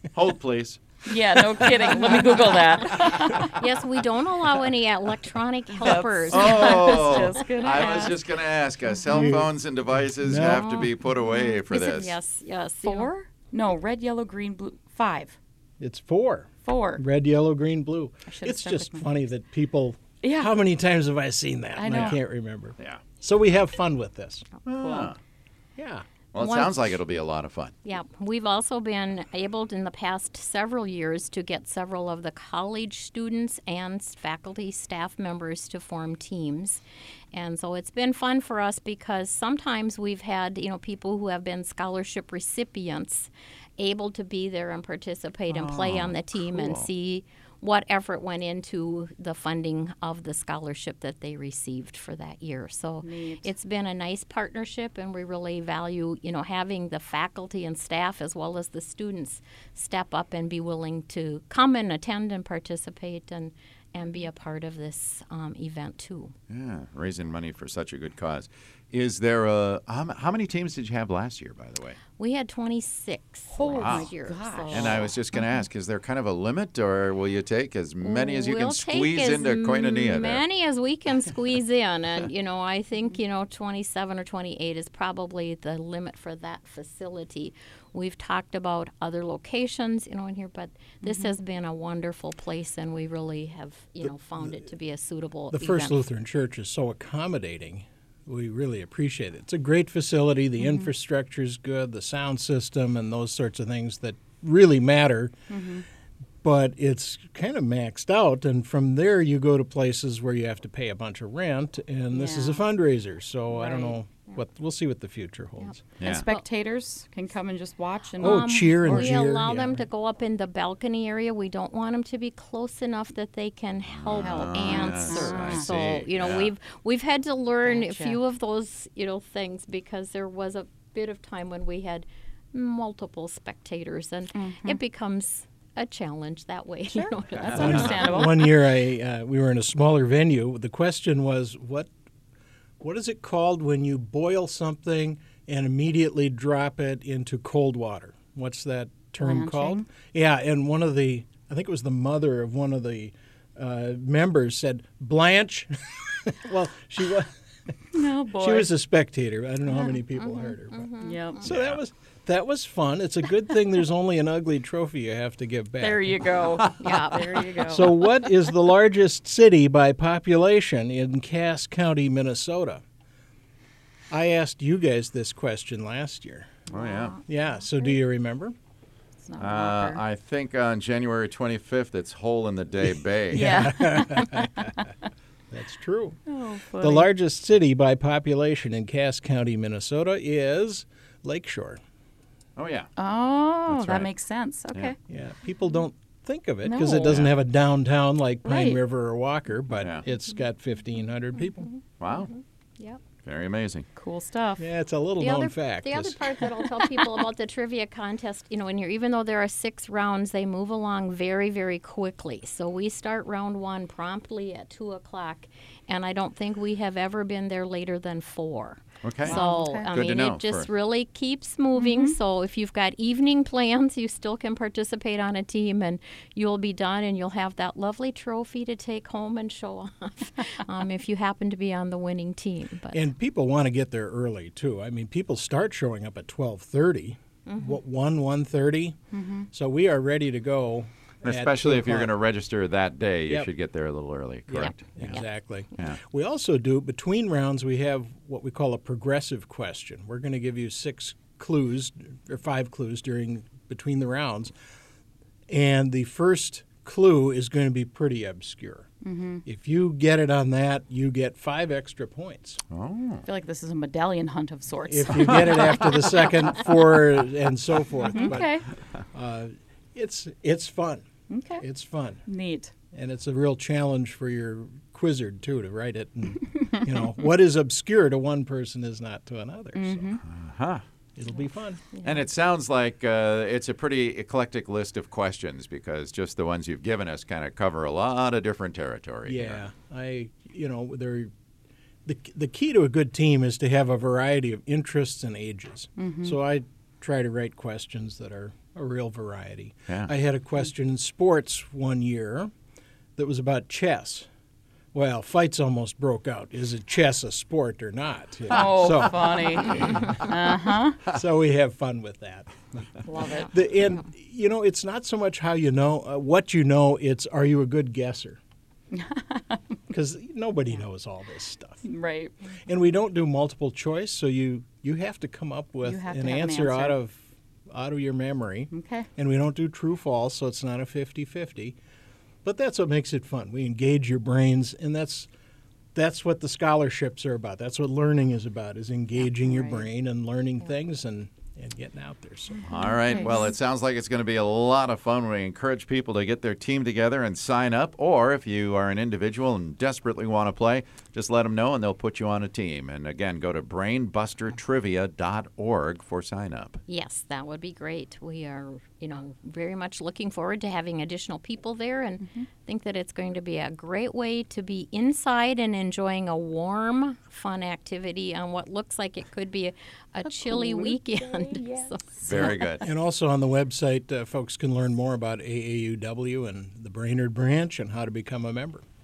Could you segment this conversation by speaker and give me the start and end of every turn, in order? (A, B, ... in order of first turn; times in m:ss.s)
0:00.1-0:00.8 A
0:01.0-0:03.5 B
0:03.2-0:08.0 C
0:05.8-0:08.2 B
0:06.3-0:12.2 A
0:09.1-0:09.5 D
0:10.2-0:10.8 D
0:10.3-0:13.1 C
0:12.8-0:15.4 B
0:15.8-0:24.5 D
0:16.6-0:17.0 B
0:18.2-0:19.1 B
0:20.2-0:20.5 B
0:21.7-0:22.2 B
0:24.6-0:25.2 A
0:24.8-0:25.1 B
0:25.8-0:26.0 D
0:26.3-0:27.7 A
0:26.4-0:27.0 C
0:27.8-0:36.8 C
0:37.3-1:06.3 C
0:45.5-0:46.9 A
0:53.0-0:53.5 B
1:06.5-1:12.0 A
1:12.2-1:15.2 C
1:13.5-1:15.0 B
1:13.7-1:14.1 A
1:14.7-1:20.4 A
1:18.0-1:36.0 C
1:35.5-1:45.3 D
1:40.6-1:40.9 B
1:45.5-1:45.8 B
1:46.4-1:55.8 D
1:52.1-1:52.6 B
1:53.6-1:53.9 B
1:55.6-1:56.4 C
1:56.0-1:56.2 A
1:56.0-1:59.1 B
1:58.2-2:18.4 C
1:58.2-1:59.8 D
2:03.9-2:06.5 A
2:04.1-2:05.7 B
2:07.6-2:08.2 B
2:14.3-2:14.8 B
2:16.9-2:18.4 B
2:17.5-2:21.9 D
2:22.8-2:37.3 D
2:29.2-2:29.8 B
2:37.9-2:38.7 B
2:38.3-2:46.3 D
2:40.2-2:41.4 C
2:41.0-2:41.5 B
2:41.4-2:41.8 A
2:45.8-2:47.9 B
2:46.8-2:47.5 C
2:47.6-2:52.8 D
2:54.1-2:56.6 D
2:56.7-2:57.2 A
2:56.7-2:57.2 B
2:57.3-2:58.5 D
2:59.2-3:00.0 B
2:59.4-3:03.6 A
3:03.3-3:04.9 D
3:03.3-3:04.5 B
3:05.5-3:06.2 D
3:06.3-3:07.1 B
3:06.8-3:11.8 D
3:12.6-3:12.9 A
3:13.0-3:15.0 B
3:13.7-3:14.1 A
3:15.1-3:21.7 D
3:16.6-3:17.2 B
3:17.0-3:17.3 A
3:18.4-3:18.8 B
3:21.6-3:23.0 C
3:22.0-3:22.3 A
3:23.2-3:23.8 A
3:24.0-3:24.6 B
3:24.6-3:26.2 D
3:25.2-3:53.0 C
3:39.0-3:40.7 A
3:39.2-3:40.0 B
3:41.8-3:42.1 B
3:52.9-3:59.0 D
3:57.4-3:57.8 C
3:59.1-3:59.4 B
3:59.5-4:02.1 D
4:01.2-4:05.2 A
4:04.5-4:14.5 D
4:04.6-4:05.2 C
4:15.5-4:18.9 D
4:19.0-4:19.4 B
4:19.4-4:22.6 D
4:22.7-4:23.2 A
4:23.2-4:26.5 B
4:24.8-4:31.1 D
4:28.0-4:28.7 B
4:31.3-4:31.6 B
4:31.6-4:32.2 D
4:32.2-4:32.7 B
4:32.9-4:40.2 D
4:39.7-4:40.2 B
4:40.2-4:40.8 A
4:41.2-4:41.8 D
4:41.9-4:42.2 C
4:42.0-4:49.6 A
4:49.2-4:51.3 D
4:52.0-5:02.5 D
4:56.0-4:56.4 B
5:03.2-5:04.3 D
5:04.9-5:10.2 D
5:08.5-5:11.0 B
5:11.0-5:18.4 D
5:13.0-5:13.5 B
5:18.9-5:19.6 B
5:19.9-5:21.8 D
5:21.8-5:22.3 B
5:22.6-5:31.8 D
5:25.8-5:27.0 B
5:28.7-5:29.1 B
5:32.4-5:35.3 D
5:35.9-5:42.6 D
5:39.4-5:39.8 B
5:42.6-5:56.8 A
5:42.6-5:43.5 B
5:56.9-6:12.6 C
6:02.2-6:02.5 B
6:10.2-6:12.5 B
6:12.2-6:12.9 A
6:12.8-6:18.8 D